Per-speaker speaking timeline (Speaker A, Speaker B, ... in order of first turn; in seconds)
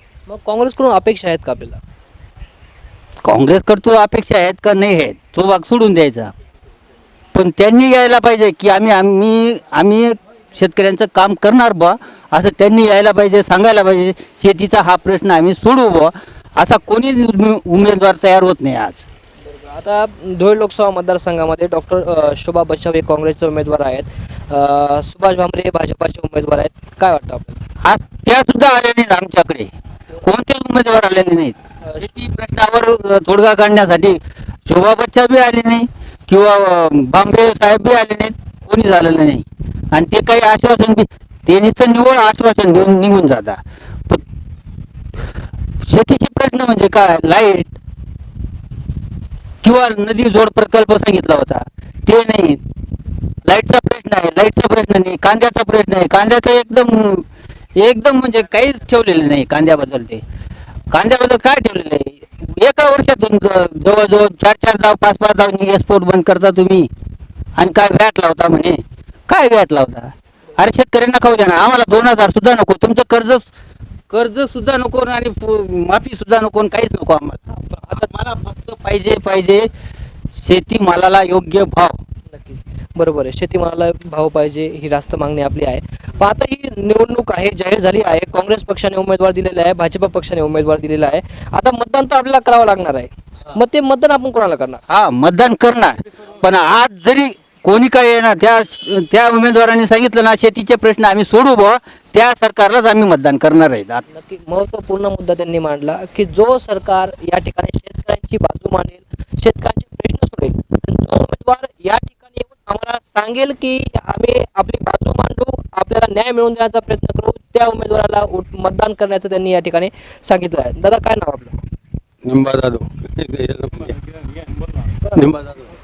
Speaker A: 0.3-1.8, 19.5-27.6, 77.5-78.1, 82.3-94.8, 104.1-121.5
Speaker B: 3.2-6.3, 7.3-19.1, 27.9-44.2, 45.8-47.8, 49.6-52.6, 53.4-57.2, 57.8-60.2, 60.9-66.9, 67.6-73.5, 74.1-77.4, 77.9-79.7, 80.3-82.0, 94.9-104.0
Speaker C: 122.2-124.0, 125.1-125.6